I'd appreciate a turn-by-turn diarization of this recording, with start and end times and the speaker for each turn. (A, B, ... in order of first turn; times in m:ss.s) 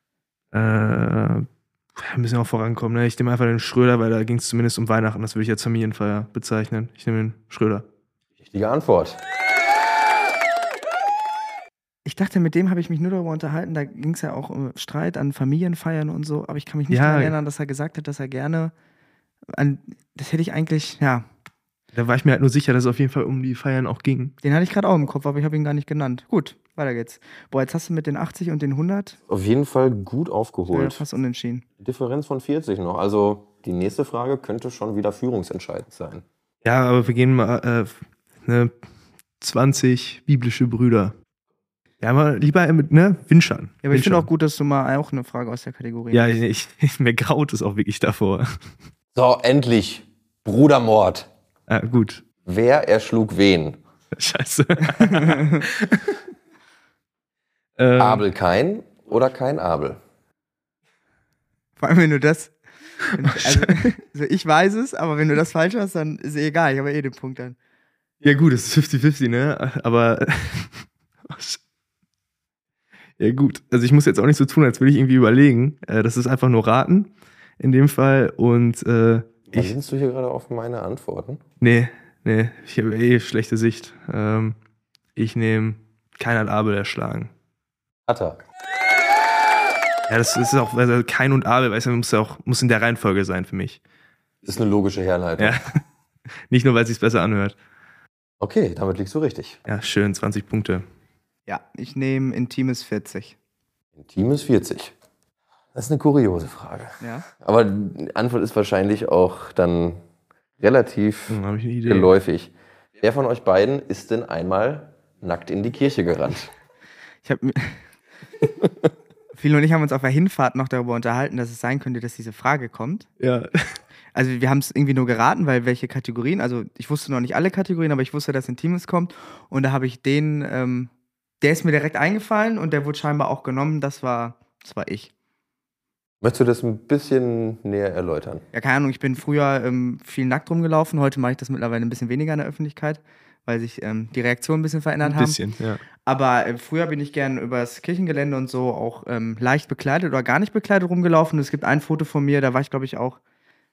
0:00.5-0:07.8 A
0:08.4-0:09.2 B
0:12.0-0:18.7 C
0:16.9-0:17.4 A
0:19.5-0:21.3 C
0:21.9-0:24.4 A
0:24.4-0:29.2 C
0:29.3-0:31.0 B
0:30.7-0:31.6 C
0:31.8-0:36.2 B
0:36.6-0:38.7 A
0:39.4-0:41.2 A
0:42.0-0:44.3 A
0:43.8-0:46.3 C
0:46.1-0:48.5 A
0:49.2-0:51.3 B
0:51.7-0:52.2 A
0:52.4-0:53.8 B
0:54.1-0:56.2 A
0:54.9-0:55.6 C
0:57.8-0:58.2 A
0:58.0-1:00.0 B
1:01.8-1:02.5 C
1:03.1-1:07.6 C
1:03.3-1:03.8 A
1:08.2-1:11.6 A
1:13.2-1:19.7 A
1:19.5-1:21.4 B
1:21.6-1:24.6 A
1:25.2-1:27.3 A
1:28.1-1:28.4 B
1:30.1-1:33.8 A
1:34.4-1:35.6 B
1:35.4-1:35.8 A
1:36.5-1:37.6 A
1:38.4-1:39.6 B
1:39.7-1:40.8 A
1:41.5-1:43.4 C
1:44.0-1:44.9 B
1:45.8-1:50.0 B
1:47.0-1:47.3 C
1:50.6-1:56.5 B
1:51.3-1:52.1 A
1:57.2-1:57.9 C
1:59.3-2:03.1 C
2:03.2-2:03.8 A
2:04.2-2:15.1 C
2:16.2-2:18.4 B
2:18.5-2:25.4 C
2:25.0-2:25.8 A
2:26.1-2:33.2 C